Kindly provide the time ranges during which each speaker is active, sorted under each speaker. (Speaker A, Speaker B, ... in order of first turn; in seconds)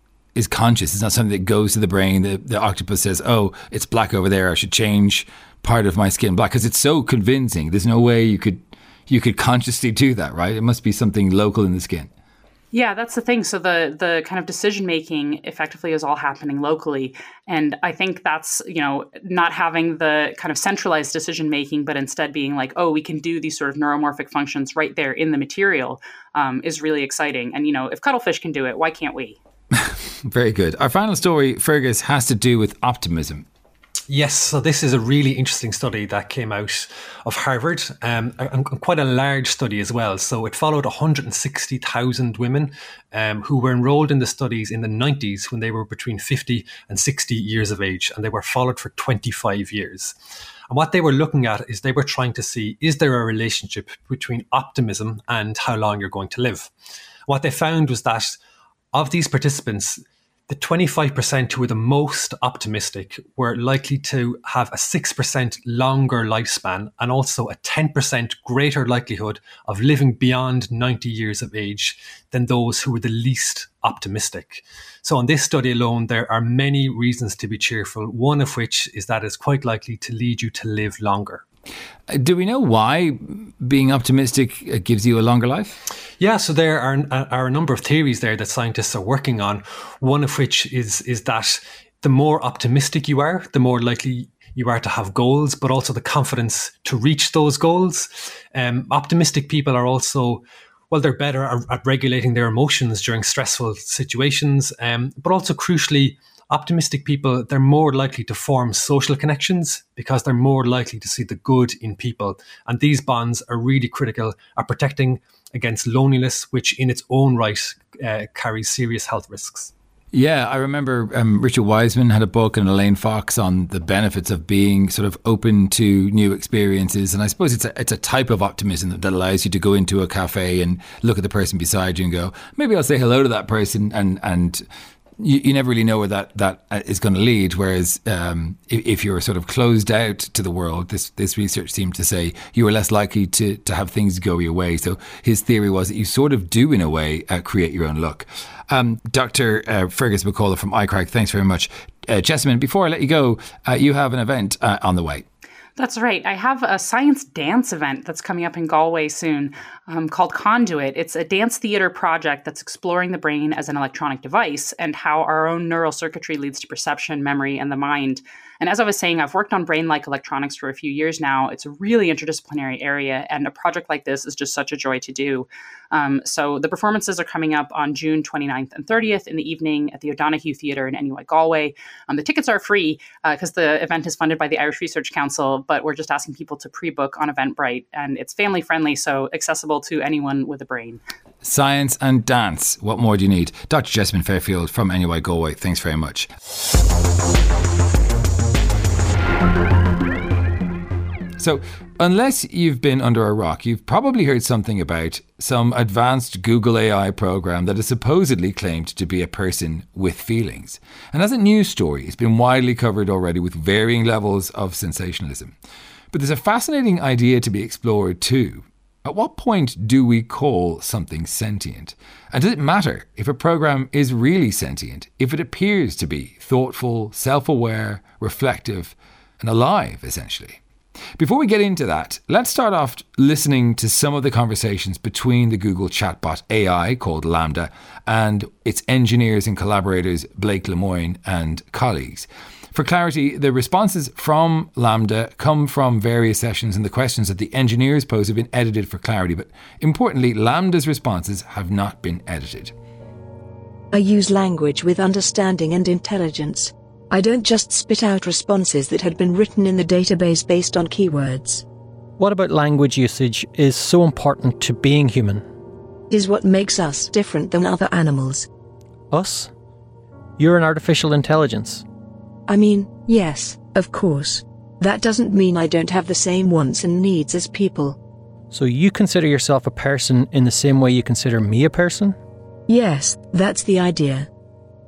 Speaker A: 0.3-12.1, 29.7-33.5, 82.1-85.8, 120.1-134.6, 135.2-155.2, 191.4-196.3, 201.4-215.6, 216.1-230.6, 231.2-252.7
Speaker B: 12.7-29.4, 155.8-191.0
Speaker C: 34.1-50.1, 50.7-56.7, 57.3-58.4, 58.9-81.4, 86.2-119.7
Speaker D: 253.9-261.6, 266.1-268.5, 272.5-278.0, 282.7-284.3
Speaker E: 262.2-265.4, 269.1-269.5, 270.4-271.8, 278.5-282.2